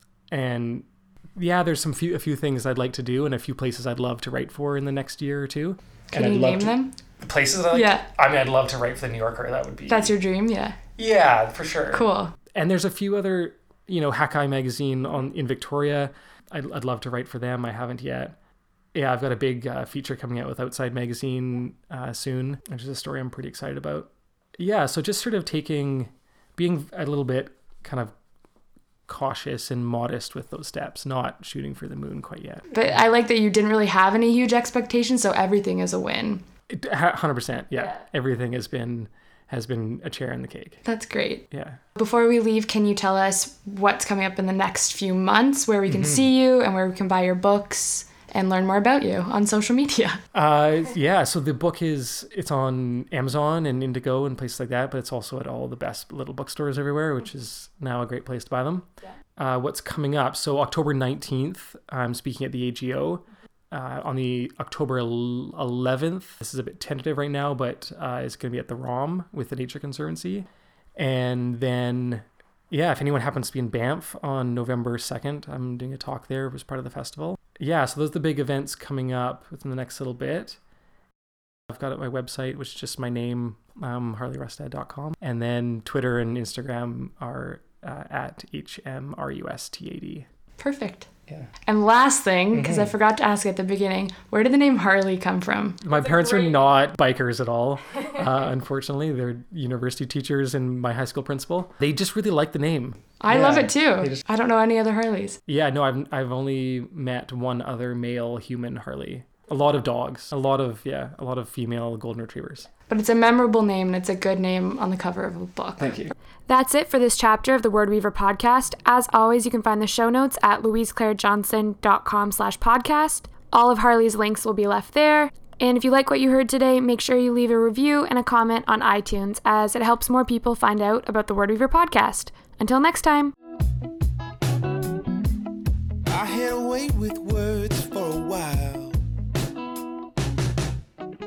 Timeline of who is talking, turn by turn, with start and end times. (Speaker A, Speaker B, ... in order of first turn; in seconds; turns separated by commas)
Speaker A: 0.3-10.1, Speaker B: 6.1-6.9, Speaker B: 7.7-8.1, Speaker B: 9.9-10.8, Speaker A: 11.0-18.4, Speaker B: 11.9-12.4, Speaker A: 18.9-28.1, Speaker A: 29.1-33.0, Speaker B: 32.7-36.4, Speaker A: 36.7-40.8, Speaker B: 40.9-50.2, Speaker A: 41.5-41.8, Speaker A: 45.9-46.3, Speaker A: 50.3-80.6, Speaker A: 81.7-90.3, Speaker B: 90.6-91.1, Speaker B: 91.7-96.6, Speaker A: 92.5-92.9, Speaker A: 95.8-104.2, Speaker B: 103.2-105.4, Speaker A: 105.5-112.7, Speaker B: 112.9-133.3, Speaker A: 115.8-116.1, Speaker C: 136.1-139.0